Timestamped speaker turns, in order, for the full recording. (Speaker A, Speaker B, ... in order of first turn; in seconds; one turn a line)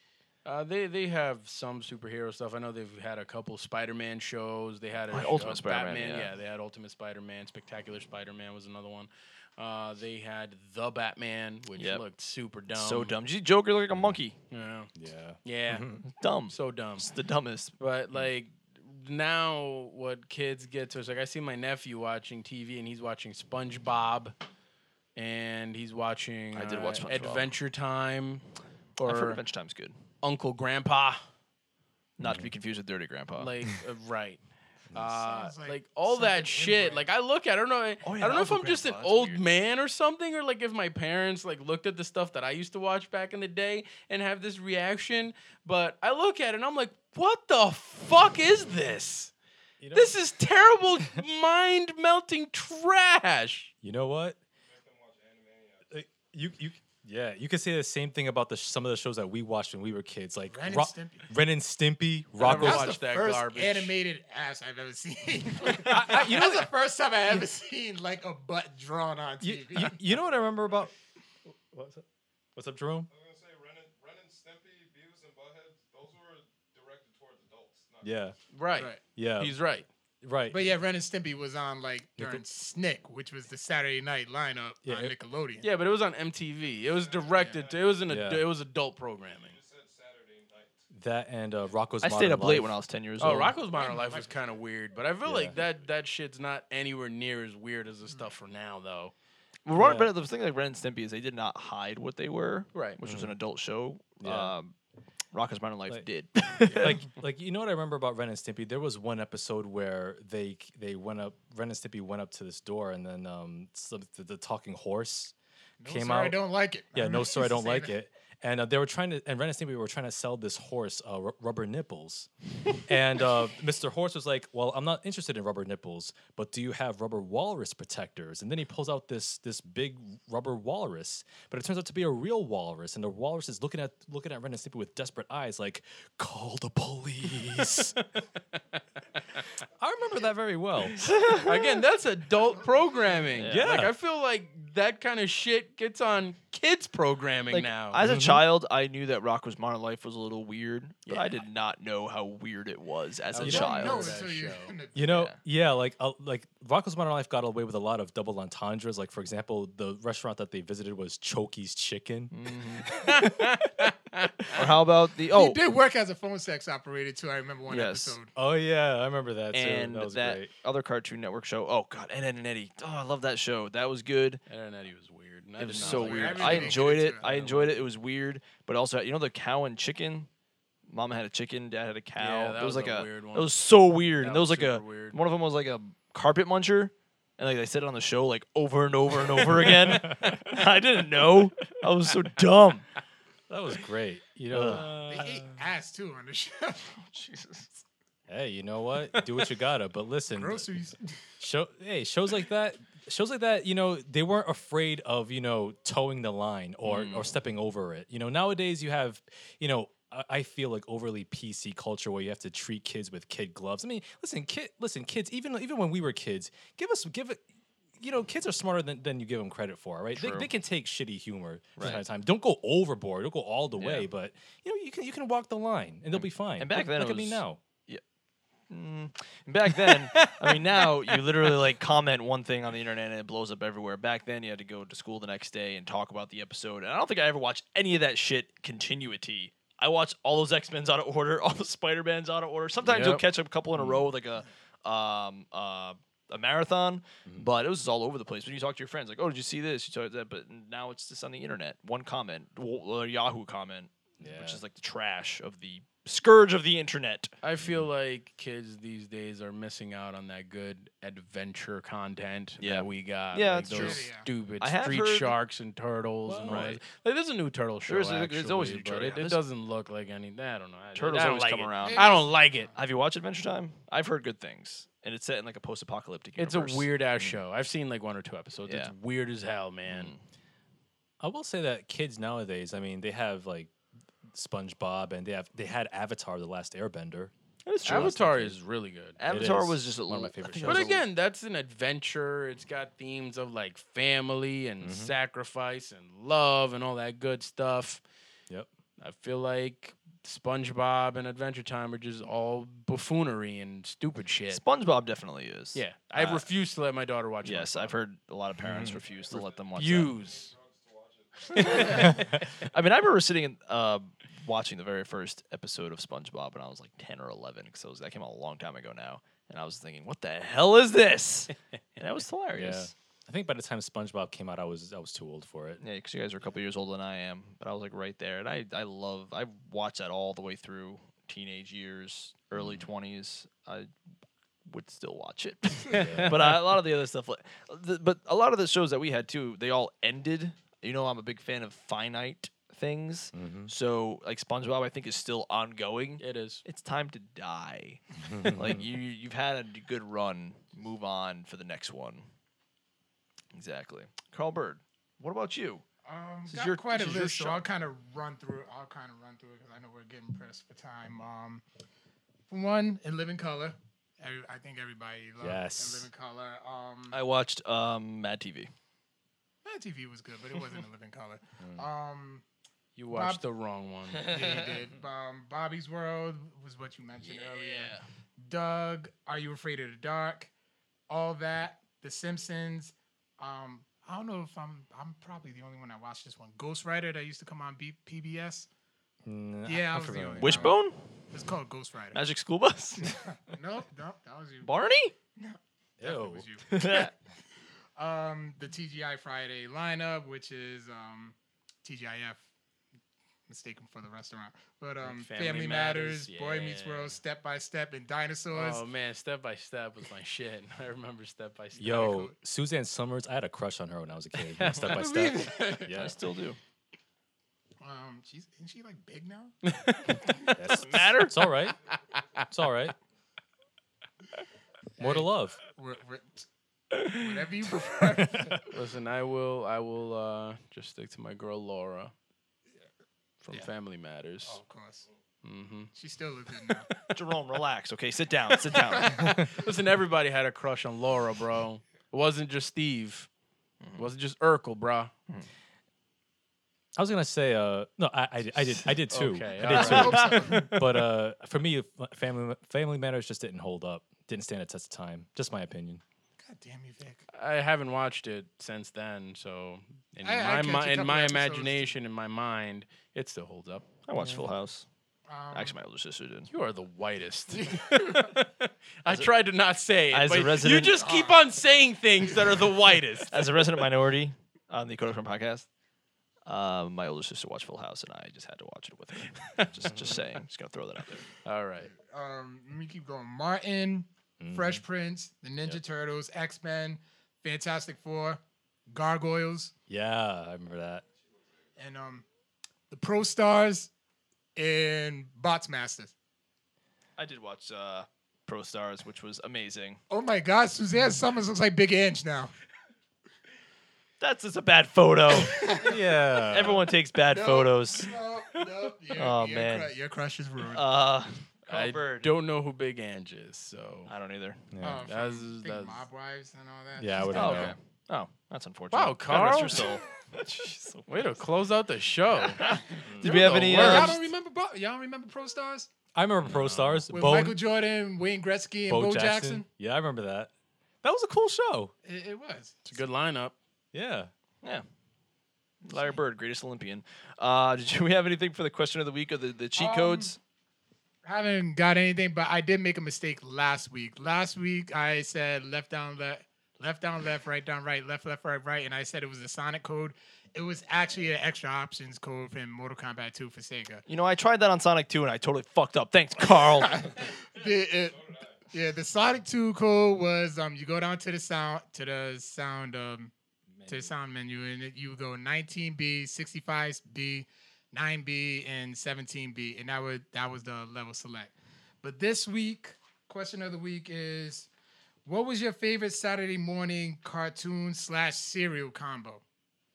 Speaker A: 0.5-13.1
Speaker B: 5.1-6.3
Speaker B: 11.8-12.0
Speaker B: 12.7-14.4
Speaker A: 14.5-14.9
Speaker C: 14.9-16.0
Speaker A: 15.4-15.9
Speaker B: 16.1-17.8
Speaker A: 16.5-17.1
Speaker A: 17.8-24.4
Speaker A: 25.2-28.4
Speaker B: 26.5-27.6
Speaker A: 29.0-29.4
Speaker B: 29.0-30.0
Speaker A: 30.2-31.2
Speaker B: 32.2-33.5
Speaker C: 32.2-32.5
Speaker A: 33.4-34.4
Speaker A: 34.9-49.3
Speaker D: 35.0-37.1
Speaker B: 38.0-39.4
Speaker C: 49.8-50.1
Speaker A: 49.9-53.7
Speaker C: 53.8-54.4
Speaker E: 54.7-56.1
Speaker C: 55.9-63.0
Speaker D: 60.5-61.3
Speaker A: 62.4-63.9
Speaker D: 62.5-70.0
Speaker C: 65.7-66.7
Speaker C: 69.4-70.9
Speaker E: 70.5-70.9
Speaker C: 71.5-72.0
Speaker C: 72.6-73.1
Speaker E: 73.1-78.2
Speaker C: 78.0-78.4
Speaker A: 78.5-79.9
Speaker C: 79.2-79.6
Speaker C: 80.2-80.7
Speaker D: 80.5-85.7
Speaker C: 82.2-82.4
Speaker C: 84.8-85.1
Speaker A: 85.6-89.6
Speaker E: 86.6-88.2
Speaker C: 88.1-88.5
Speaker E: 89.3-90.8
Speaker C: 90.9-92.8
Speaker B: 92.0-93.6
Speaker A: 93.2-99.1
Speaker E: 93.7-94.3
Speaker D: 93.7-94.3
Speaker C: 95.2-95.6
Speaker E: 95.5-95.9
Speaker B: 99.7-104.7
Speaker C: 99.7-100.1
Speaker A: 102.7-103.0
Speaker C: 103.0-103.3
Speaker C: 104.2-104.5
Speaker B: 105.3-107.1
Speaker C: 106.6-115.3
Speaker D: 115.8-117.9
Speaker C: 115.8-116.4
Speaker C: 116.9-122.3
Speaker C: 122.8-138.0
Speaker C: 139.8-141.1
Speaker B: 141.0-141.7
Speaker A: 141.4-148.0
Speaker D: 142.5-143.3
Speaker B: 143.4-143.7
Speaker C: 143.5-143.9
Speaker B: 147.5-154.2
Speaker C: 148.0-148.4
Speaker A: 151.1-151.4
Speaker A: 153.3-154.7
Speaker C: 153.4-153.8
Speaker D: 153.5-155.0
Speaker C: 154.9-162.3
Speaker B: 155.1-155.4
Speaker B: 162.3-163.1
Speaker A: 162.4-164.6
Speaker B: 164.5-165.6
Speaker D: 165.3-168.3
Speaker B: 167.7-168.2
Speaker C: 168.4-170.5
Speaker B: 169.5-174.4
Speaker A: 174.5-177.8
Speaker B: 175.6-180.3
Speaker D: 175.8-177.2
Speaker B: 180.9-192.9
Speaker A: 182.2-183.5
Speaker A: 184.2-185.2
Speaker A: 189.9-190.2
Speaker C: 189.9-190.4
Speaker C: 193.5-195.6
Speaker B: 194.5-194.9
Speaker D: 194.7-197.0
Speaker B: 197.1-197.7
Speaker C: 198.3-200.7
Speaker D: 200.4-201.2
Speaker C: 201.4-217.4
Speaker B: 206.9-207.3
Speaker C: 218.0-227.6
Speaker B: 220.2-220.5
Speaker B: 221.8-222.0
Speaker B: 223.8-224.1
Speaker B: 226.1-228.0
Speaker B: 228.7-257.3
Speaker A: 229.9-231.1
Speaker C: 242.8-243.2
Speaker C: 243.8-244.1
Speaker C: 254.2-254.6
Speaker A: 257.4-272.7
Speaker C: 257.6-257.9
Speaker B: 262.6-265.4
Speaker D: 263.7-264.3
Speaker C: 266.3-266.7
Speaker B: 266.4-266.8
Speaker B: 267.9-269.4
Speaker B: 270.9-272.1
Speaker D: 271.8-272.7
Speaker B: 272.8-276.9
Speaker A: 276.4-280.1
Speaker B: 278.7-278.9
Speaker B: 279.9-280.2
Speaker C: 281.2-283.7
Speaker C: 284.3-288.6
Speaker B: 287.6-288.2
Speaker A: 287.9-289.2
Speaker B: 289.2-291.0
Speaker C: 289.3-291.0
Speaker A: 290.6-298.0
Speaker C: 294.8-295.1
Speaker A: 299.0-304.6
Speaker B: 304.5-306.5
Speaker A: 305.7-308.0
Speaker B: 307.4-310.1
Speaker C: 308.6-309.0
Speaker E: 308.9-312.3
Speaker A: 309.7-310.6
Speaker A: 311.5-312.1
Speaker B: 311.5-322.9
Speaker C: 312.0-312.4
Speaker C: 322.5-325.8
Speaker B: 325.8-333.9
Speaker C: 332.6-332.9
Speaker B: 334.7-352.3
Speaker C: 335.9-336.4
Speaker A: 335.9-336.5
Speaker C: 343.3-343.7
Speaker A: 346.2-346.6
Speaker C: 348.2-348.9
Speaker B: 353.5-355.8
Speaker D: 356.1-361.6
Speaker B: 356.5-357.6
Speaker D: 362.5-367.2
Speaker C: 365.4-366.1
Speaker B: 367.1-368.7
Speaker D: 369.6-372.4
Speaker C: 371.6-371.9
Speaker A: 373.0-374.6
Speaker D: 373.1-373.4
Speaker D: 374.2-380.5
Speaker B: 374.3-374.7
Speaker B: 377.2-378.0
Speaker D: 381.1-388.7
Speaker C: 389.3-390.7
Speaker D: 389.7-390.8
Speaker B: 390.4-391.0
Speaker D: 391.3-392.2
Speaker B: 392.1-393.1
Speaker D: 393.0-394.7
Speaker B: 394.6-395.1
Speaker D: 395.4-397.1
Speaker C: 396.0-396.5
Speaker B: 396.7-397.1
Speaker D: 398.0-402.4
Speaker D: 403.5-408.9
Speaker A: 405.0-407.2
Speaker A: 408.5-412.3
Speaker C: 411.8-416.2
Speaker D: 411.9-412.3
Speaker A: 414.5-414.9
Speaker D: 414.9-416.1
Speaker B: 415.3-416.6
Speaker D: 417.8-419.6
Speaker A: 419.6-420.3
Speaker C: 420.5-421.8
Speaker B: 420.7-421.4
Speaker A: 422.1-422.4
Speaker C: 422.5-422.9
Speaker C: 425.0-425.6
Speaker D: 425.0-426.4
Speaker D: 427.0-428.6
Speaker C: 428.0-428.6
Speaker A: 428.7-432.1
Speaker A: 433.4-434.6
Speaker D: 434.4-435.1
Speaker A: 435.4-435.9
Speaker D: 435.9-437.0
Speaker B: 437.1-439.4
Speaker D: 438.9-439.4
Speaker C: 439.2-439.5
Speaker A: 439.5-443.3
Speaker B: 443.8-444.1
Speaker A: 443.9-445.1
Speaker C: 447.0-456.0
Speaker A: 449.1-450.3
Speaker D: 449.7-450.8
Speaker B: 449.7-450.8
Speaker D: 456.4-457.2
Speaker A: 457.3-464.5
Speaker D: 460.2-461.9
Speaker B: 464.1-464.9
Speaker D: 465.3-465.8
Speaker B: 465.5-466.5
Speaker A: 466.5-473.8
Speaker D: 467.7-468.3
Speaker B: 470.1-471.0
Speaker D: 470.9-471.5
Speaker B: 473.3-475.7
Speaker B: 476.5-481.3
Speaker A: 481.4-481.9
Speaker D: 482.0-489.7
Speaker C: 484.4-484.8
Speaker C: 489.9-491.0
Speaker D: 491.8-492.2
Speaker D: 492.9-493.9
Speaker D: 494.6-496.1
Speaker B: 497.2-500.0
Speaker D: 500.1-502.5
Speaker B: 504.2-505.8
Speaker D: 505.3-506.0
Speaker C: 505.8-506.9
Speaker B: 506.5-508.1
Speaker D: 507.3-510.9
Speaker A: 508.5-508.9
Speaker B: 509.2-509.9
Speaker B: 510.6-512.3
Speaker A: 511.7-514.1
Speaker B: 514.1-514.6
Speaker C: 514.7-515.1
Speaker D: 514.8-517.8
Speaker A: 515.1-516.0
Speaker C: 517.0-517.8
Speaker B: 517.3-521.4
Speaker A: 517.4-517.7
Speaker A: 518.9-519.9
Speaker A: 521.1-522.6
Speaker B: 522.3-524.2
Speaker C: 523.1-524.1
Speaker A: 523.2-524.2
Speaker D: 523.6-525.9
Speaker C: 526.1-527.6
Speaker A: 526.4-527.1
Speaker D: 527.1-529.6
Speaker C: 528.9-530.5
Speaker C: 531.0-531.9
Speaker D: 532.0-532.9
Speaker A: 532.9-533.5
Speaker C: 533.9-534.3
Speaker B: 535.8-540.4
Speaker D: 539.8-540.4
Speaker D: 541.2-554.0
Speaker B: 554.1-557.1
Speaker D: 556.8-563.3
Speaker E: 557.9-558.6
Speaker C: 563.8-564.1
Speaker D: 563.9-574.7
Speaker D: 575.3-579.4